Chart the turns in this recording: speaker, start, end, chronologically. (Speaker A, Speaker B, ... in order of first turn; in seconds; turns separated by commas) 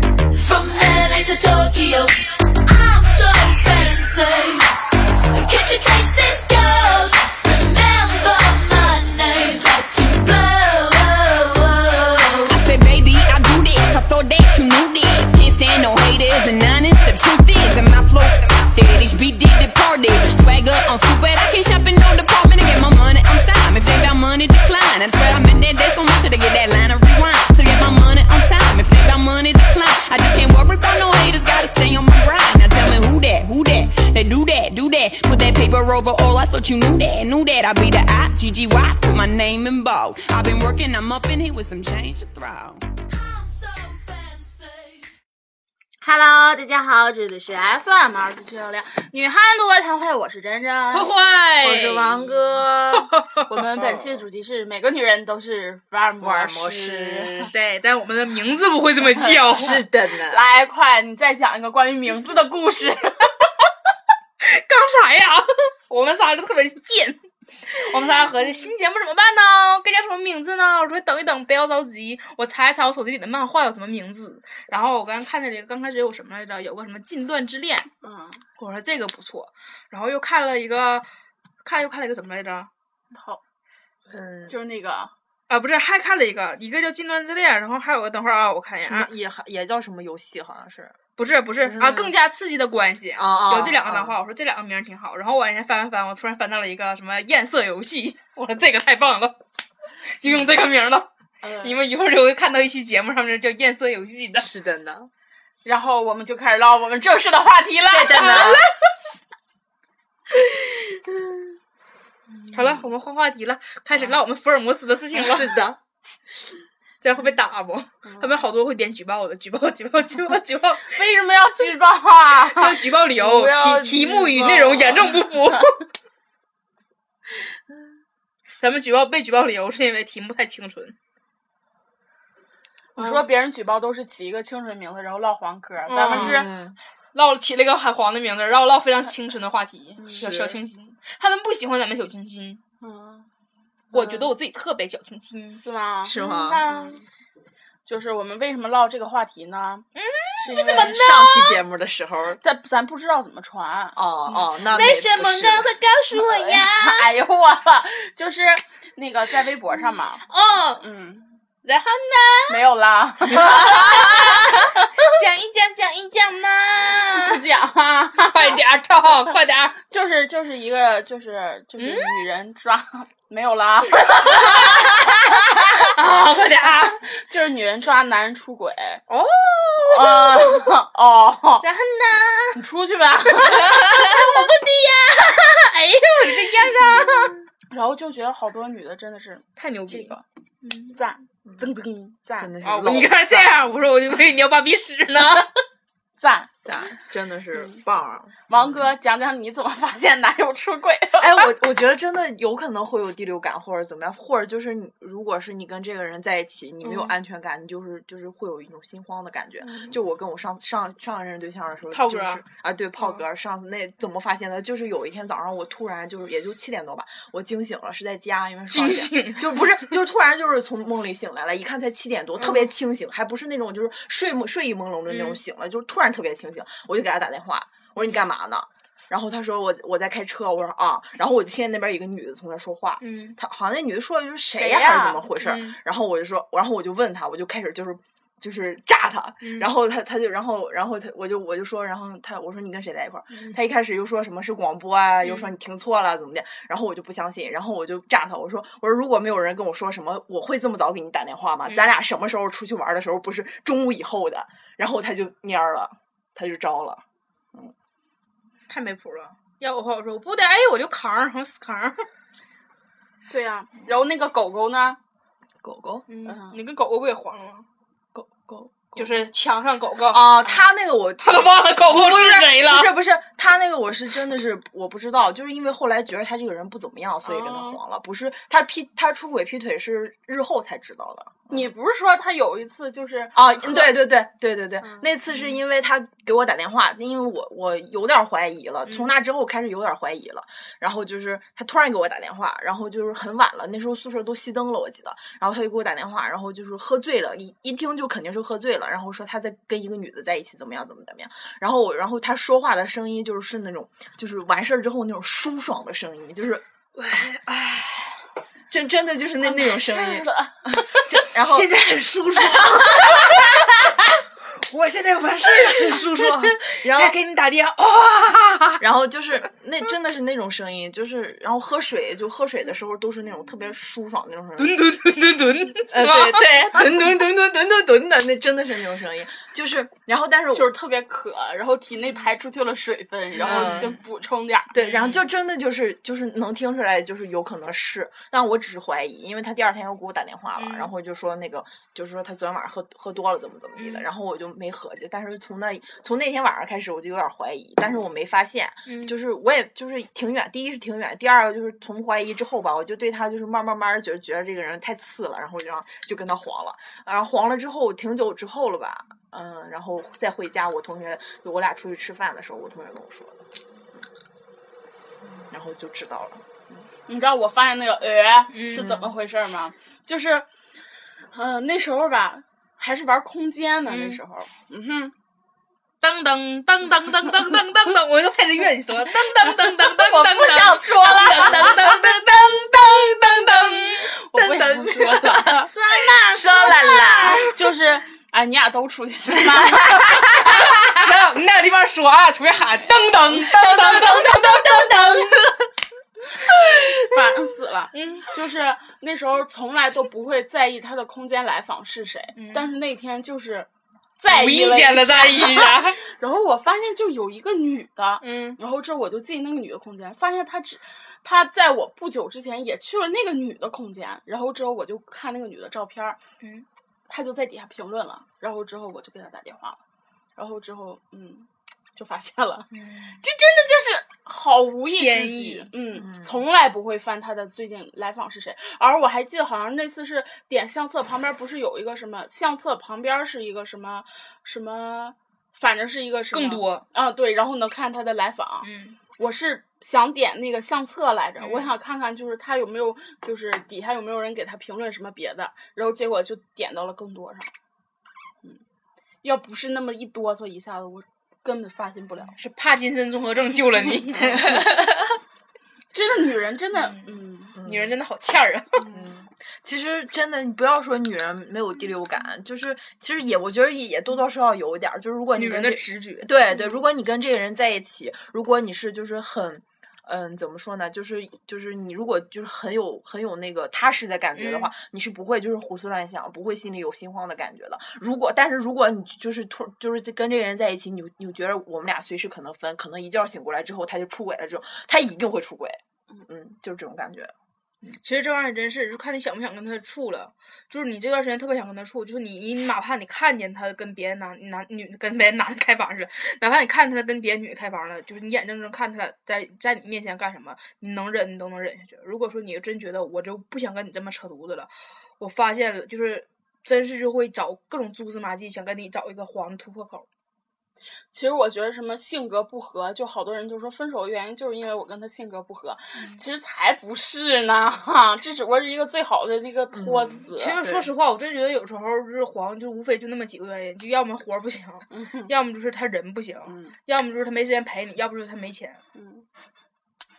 Speaker A: 0.3-4.7, Speaker A: 5.3-12.6, Speaker B: 12.4-42.8, Speaker C: 46.0-51.1, Speaker D: 50.9-52.4, Speaker E: 51.6-53.1, Speaker D: 52.9-54.2, Speaker C: 53.5-57.5, Speaker E: 56.2-57.5, Speaker D: 57.5-59.8, Speaker E: 59.5-60.4, Speaker C: 60.3-63.1, Speaker D: 64.4-77.9, Speaker C: 78.0-78.4, Speaker D: 78.6-81.1, Speaker D: 81.6-82.7, Speaker C: 83.1-83.4, Speaker E: 84.1-84.5, Speaker C: 84.5-85.1, Speaker D: 85.5-89.1, Speaker E: 88.8-90.9, Speaker D: 91.2-99.4, Speaker E: 91.6-92.1, Speaker E: 93.2-94.2, Speaker D: 100.2-101.1, Speaker C: 101.4-101.8, Speaker D: 101.6-104.5, Speaker E: 104.3-105.1, Speaker C: 105.6-108.6, Speaker E: 107.9-108.7, Speaker D: 108.1-108.7, Speaker E: 110.3-111.5, Speaker D: 112.5-115.6, Speaker E: 113.9-114.2, Speaker E: 115.1-115.8, Speaker D: 117.0-120.9, Speaker C: 118.0-118.3, Speaker C: 120.9-122.8, Speaker D: 122.5-125.8, Speaker E: 123.1-125.2, Speaker D: 128.6-130.9, Speaker C: 132.9-136.5, Speaker D: 133.0-133.2, Speaker D: 135.9-136.5, Speaker E: 136.1-136.8, Speaker D: 137.1-142.6, Speaker C: 140.0-140.5, Speaker E: 140.2-140.5, Speaker C: 142.8-143.3, Speaker D: 143.9-145.6, Speaker C: 143.9-144.3, Speaker C: 145.6-147.0, Speaker E: 146.0-146.6, Speaker D: 146.2-146.9, Speaker C: 147.9-149.8, Speaker D: 149.9-151.6, Speaker C: 150.4-151.0, Speaker E: 150.6-152.4, Speaker C: 152.4-154.0, Speaker E: 153.9-155.7, Speaker D: 154.3-157.1, Speaker C: 156.2-160.2, Speaker D: 160.2-160.8, Speaker C: 160.8-161.3, Speaker D: 161.6-162.6, Speaker C: 162.5-164.1, Speaker E: 163.3-164.7, Speaker D: 163.3-167.4, Speaker C: 167.2-168.6, Speaker D: 168.3-169.8, Speaker C: 169.9-175.1, Speaker D: 171.8-172.2, Speaker D: 174.1-177.0, Speaker C: 175.8-179.0, Speaker D: 179.1-180.7, Speaker C: 179.9-181.6, Speaker D: 181.6-182.6, Speaker C: 182.5-184.2, Speaker D: 183.3-187.4, Speaker C: 187.7-190.2, Speaker D: 189.6-190.9, Speaker C: 190.9-192.5, Speaker E: 192.4-193.7, Speaker D: 192.6-195.6, Speaker C: 196.2-196.5, Speaker E: 196.6-198.8, Speaker C: 198.5-201.5, Speaker E: 201.2-257.7, Speaker D: 206.8-207.2, Speaker D: 211.9-212.4, Speaker D: 218.7-219.8, Speaker D: 222.4-222.7, Speaker D: 225.1-225.4, Speaker D: 233.0-233.4, Speaker C: 234.5-235.2, Speaker D: 235.4-235.8, Speaker D: 239.4-239.7, Speaker D: 245.2-245.5, Speaker D: 251.7-251.9, Speaker D: 258.7-262.1, Speaker C: 263.3-265.0, Speaker E: 265.6-266.1, Speaker D: 266.1-267.6, Speaker C: 266.2-266.6, Speaker E: 268.1-269.2, Speaker D: 268.9-270.5, Speaker E: 270.1-281.7, Speaker D: 271.2-272.9, Speaker C: 277.3-277.8, Speaker C: 281.5-283.9, Speaker E: 283.3-306.6, Speaker C: 284.8-285.1, Speaker D: 288.8-289.1, Speaker D: 306.9-308.2, Speaker E: 308.7-311.7, Speaker C: 309.4-310.6, Speaker D: 311.3-318.8, Speaker E: 312.4-313.6, Speaker E: 315.6-317.1, Speaker E: 318.8-324.8, Speaker D: 324.6-326.9, Speaker E: 325.9-330.7, Speaker C: 330.5-334.7, Speaker D: 333.4-334.0, Speaker E: 333.4-334.0, Speaker E: 334.7-363.4, Speaker D: 334.7-335.2, Speaker D: 340.6-340.9, Speaker D: 343.8-344.1, Speaker D: 348.9-349.1, Speaker E: 365.5-366.4, Speaker C: 367.1-370.4, Speaker D: 368.5-369.1, Speaker E: 368.7-369.1, Speaker C: 371.3-375.1, Speaker D: 373.9-374.2, Speaker D: 376.0-384.1, Speaker C: 379.4-381.9, Speaker E: 381.5-387.5, Speaker C: 384.0-385.7, Speaker D: 385.6-387.5, Speaker C: 387.4-390.8, Speaker D: 390.2-395.6, Speaker E: 393.5-395.5, Speaker E: 396.6-396.9, Speaker C: 397.0-403.7, Speaker D: 397.9-398.3, Speaker D: 402.4-402.7, Speaker C: 404.2-416.2, Speaker D: 404.3-406.0, Speaker D: 408.2-408.6, Speaker D: 416.4-416.6, Speaker C: 417.1-419.8, Speaker C: 420.4-447.5, Speaker D: 422.7-423.2, Speaker D: 424.9-425.7, Speaker E: 425.9-426.4, Speaker D: 436.3-436.8, Speaker D: 438.6-439.0, Speaker D: 441.4-441.7, Speaker C: 449.2-452.3, Speaker D: 452.3-454.8, Speaker E: 454.4-455.1, Speaker C: 455.9-457.5, Speaker D: 456.8-458.8, Speaker E: 457.6-457.9, Speaker E: 458.9-487.3, Speaker D: 465.3-466.4, Speaker D: 474.3-474.7, Speaker D: 487.9-510.1, Speaker C: 511.1-520.6, Speaker E: 519.7-520.9, Speaker D: 520.3-528.8, Speaker C: 524.9-525.3, Speaker C: 526.5-526.8, Speaker C: 529.0-529.2